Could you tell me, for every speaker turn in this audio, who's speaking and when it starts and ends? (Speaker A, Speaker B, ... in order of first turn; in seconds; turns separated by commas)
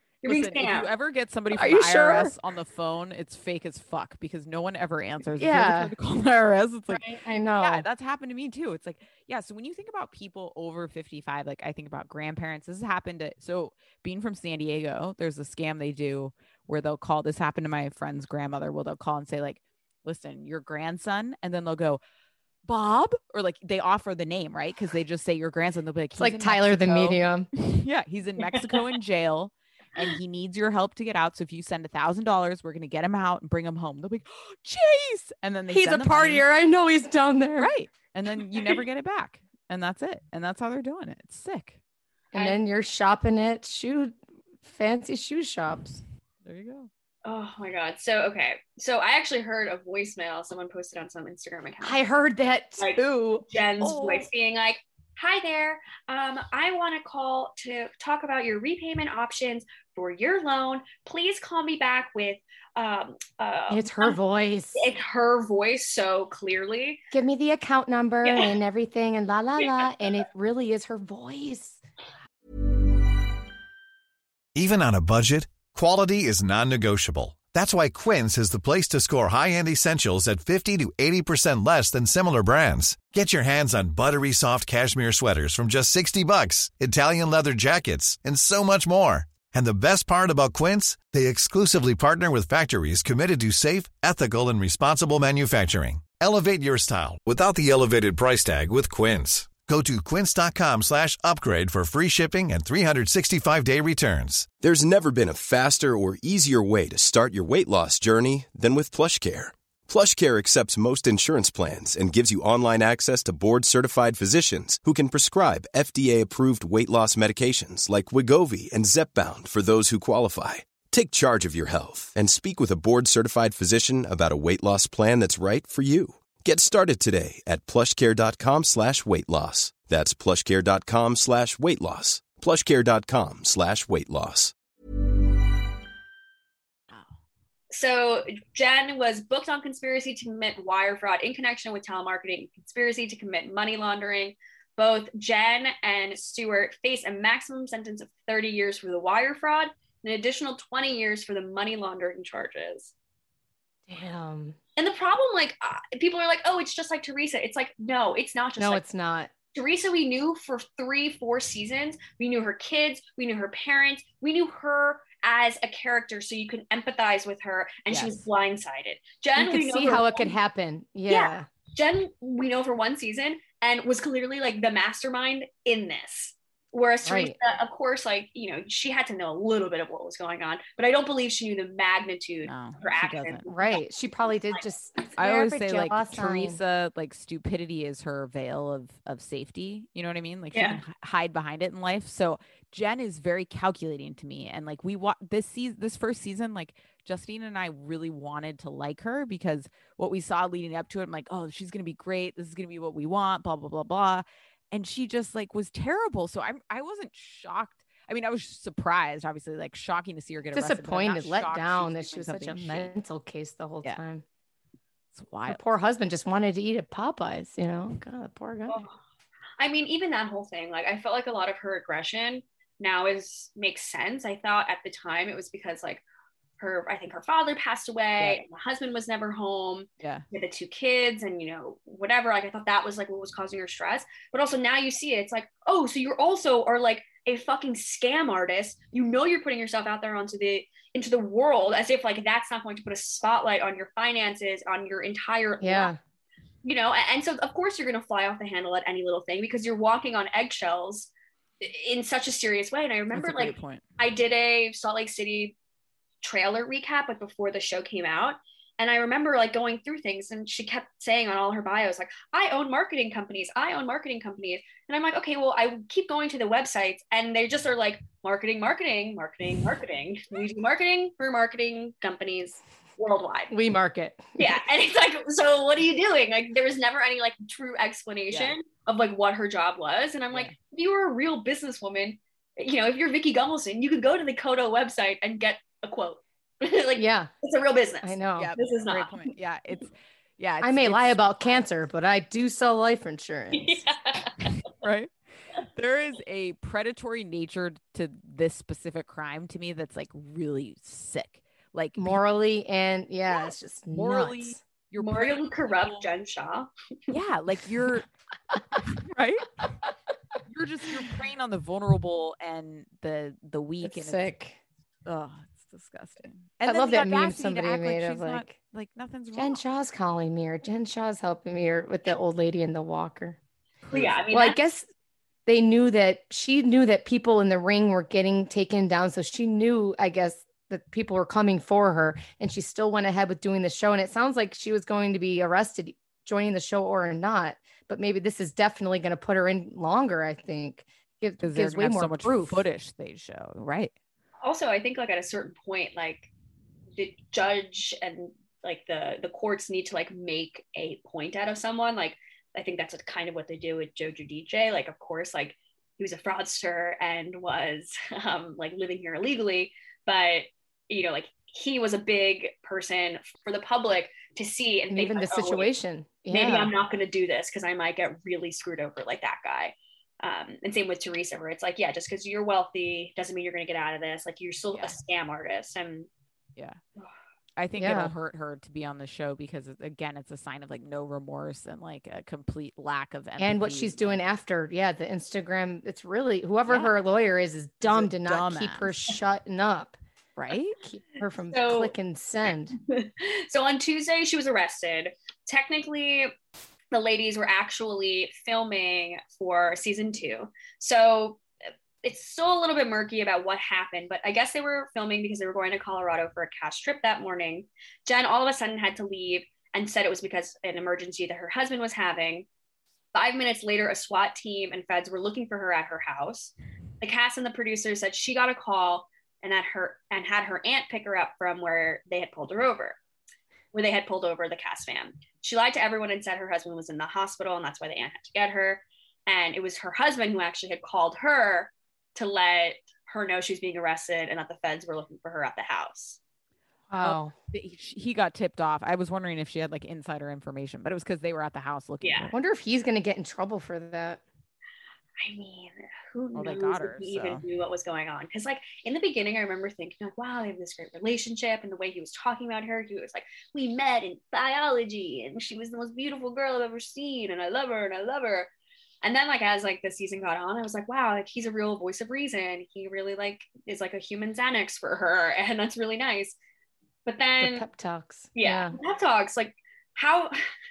Speaker A: 0.2-0.9, Speaker B: 0.2-7.0, Speaker C: 1.5-2.3, Speaker C: 5.3-5.9, Speaker C: 6.9-7.8, Speaker B: 7.6-22.0, Speaker B: 22.6-36.5, Speaker C: 26.2-27.5, Speaker C: 35.7-37.7, Speaker B: 37.6-41.8, Speaker C: 42.3-46.0, Speaker A: 42.3-42.6, Speaker B: 46.4-46.9, Speaker A: 47.2-52.0, Speaker C: 51.8-52.9, Speaker A: 52.8-64.2, Speaker B: 53.0-54.2, Speaker C: 63.7-64.8, Speaker A: 64.7-67.0, Speaker C: 67.1-71.8, Speaker A: 68.2-68.5, Speaker D: 74.5-104.5, Speaker E: 104.6-134.5, Speaker A: 137.7-152.9, Speaker C: 153.9-154.6, Speaker A: 154.8-158.8, Speaker C: 158.6-159.3, Speaker A: 159.5-170.3, Speaker B: 167.9-168.2, Speaker C: 169.3-171.5, Speaker A: 171.1-183.8, Speaker C: 177.0-177.3, Speaker B: 182.4-183.4, Speaker C: 183.5-186.6, Speaker A: 184.3-184.6, Speaker B: 185.2-212.9, Speaker A: 190.5-190.8, Speaker C: 210.5-214.2, Speaker B: 215.1-215.6, Speaker C: 215.5-218.8, Speaker A: 218.7-218.9, Speaker A: 219.6-226.0, Speaker A: 226.6-245.9, Speaker C: 245.6-246.0, Speaker A: 246.6-251.1, Speaker A: 251.6-255.6, Speaker B: 253.1-253.8, Speaker A: 256.2-273.5, Speaker C: 273.5-274.6, Speaker A: 274.4-289.3, Speaker C: 286.9-287.3, Speaker C: 288.0-288.5, Speaker B: 288.4-291.6, Speaker C: 290.6-293.8, Speaker A: 293.5-294.5, Speaker B: 294.8-302.2, Speaker C: 302.0-304.6, Speaker B: 303.9-306.1, Speaker A: 305.0-306.7, Speaker B: 307.1-308.1, Speaker B: 308.9-309.5, Speaker B: 310.5-314.3, Speaker C: 313.8-314.6, Speaker B: 315.1-319.6, Speaker C: 316.6-318.5, Speaker C: 319.3-323.4, Speaker B: 323.8-324.2, Speaker A: 323.9-324.6, Speaker C: 324.3-324.9, Speaker C: 325.5-342.6, Speaker B: 341.4-343.9, Speaker A: 344.4-346.3, Speaker A: 346.9-365.7, Speaker C: 364.9-366.7, Speaker A: 366.3-376.1, Speaker B: 377.6-384.2, Speaker C: 377.8-378.1, Speaker C: 383.4-390.0, Speaker B: 387.8-388.9, Speaker B: 390.4-390.8, Speaker C: 390.9-392.8, Speaker A: 391.5-391.9, Speaker A: 392.9-396.3, Speaker A: 396.9-401.4, Speaker A: 402.0-412.4, Speaker A: 413.1-423.0, Speaker A: 423.7-436.2, Speaker C: 436.9-437.3, Speaker B: 437.0-442.3, Speaker A: 442.0-442.3, Speaker C: 442.3-444.2, Speaker A: 445.2-458.5, Speaker B: 446.3-447.4, Speaker A: 459.0-466.4, Speaker A: 467.1-467.6, Speaker C: 467.4-468.8, Speaker A: 468.4-470.4